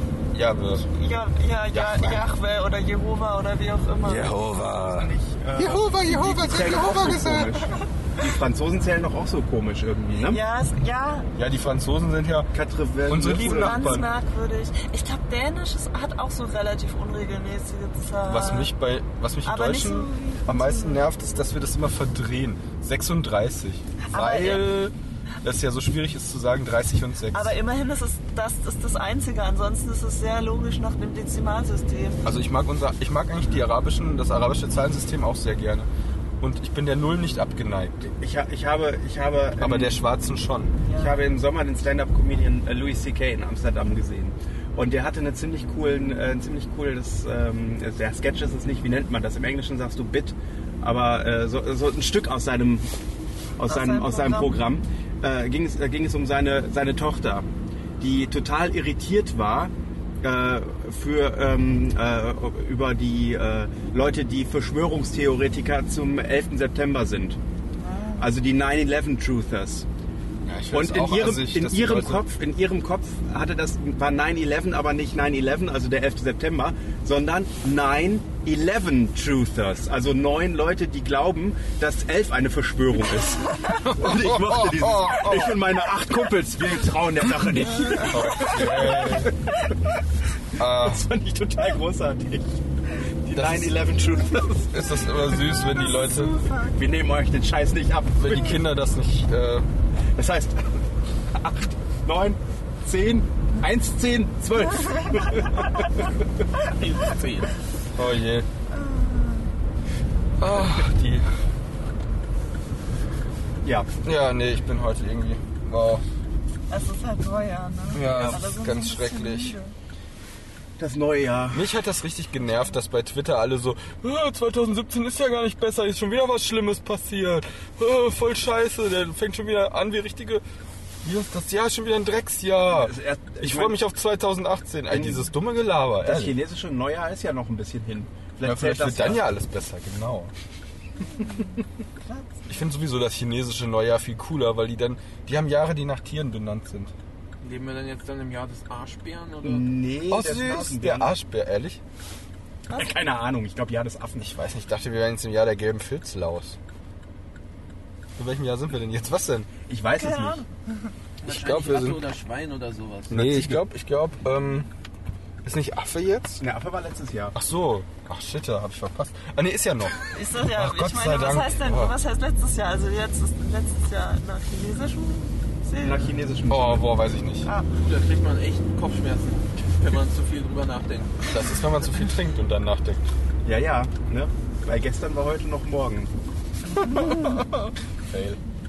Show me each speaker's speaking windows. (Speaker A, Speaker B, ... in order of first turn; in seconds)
Speaker A: 0.3-0.9, 1.7-2.2, 4.0-7.7, 11.4-12.5, 13.0-14.1, 18.3-24.9, 25.4-27.6, 32.2-35.9, 36.4-38.0, 39.6-40.8, 70.5-72.3, 83.8-85.6, 88.0-89.3, 90.6-91.0, 93.3-93.8, 94.7-96.5, 98.2-99.7, 108.0-108.5, 110.4-111.3, 114.0-116.0, 117.9-119.6, 121.5-130.4, 131.0-136.4, 138.4-140.3, 142.5-146.9, 150.1-151.8, 154.2-156.6, 158.2-159.5, 161.3-162.0, 163.1-164.7, 165.4-166.4, 167.3-172.0, 176.5-177.5, 181.2-183.0, 188.0-188.4
Speaker B: 0.9-4.4, 10.2-11.3, 13.3-18.7, 19.4-21.0, 24.1-24.7, 27.3-32.2, 40.8-41.2, 53.7-54.6, 67.8-68.3, 88.4-88.8, 95.3-96.7, 108.7-109.5, 116.7-119.8, 141.1-142.3, 160.0-160.9, 170.1-176.2, 177.4-177.7, 186.7-187.4
Speaker C: 4.5-10.4, 12.5-14.0, 38.0-40.0, 40.9-52.9, 53.6-57.5, 58.0-67.4, 68.2-69.9, 70.7-89.3, 90.8-92.5, 93.2-94.7, 96.6-98.6, 100.2-100.8, 101.3-105.9, 113.6-113.9, 118.0-118.4, 120.8-121.7, 132.7-133.8, 134.9-135.3, 136.0-139.2, 149.4-151.1, 152.7-154.3, 159.7-160.4, 163.1-163.7, 166.4-167.4, 175.8-176.9, 183.4-186.1
Speaker D: 106.6-107.5, 147.4-149.7, 161.2-163.2, 177.8-181.2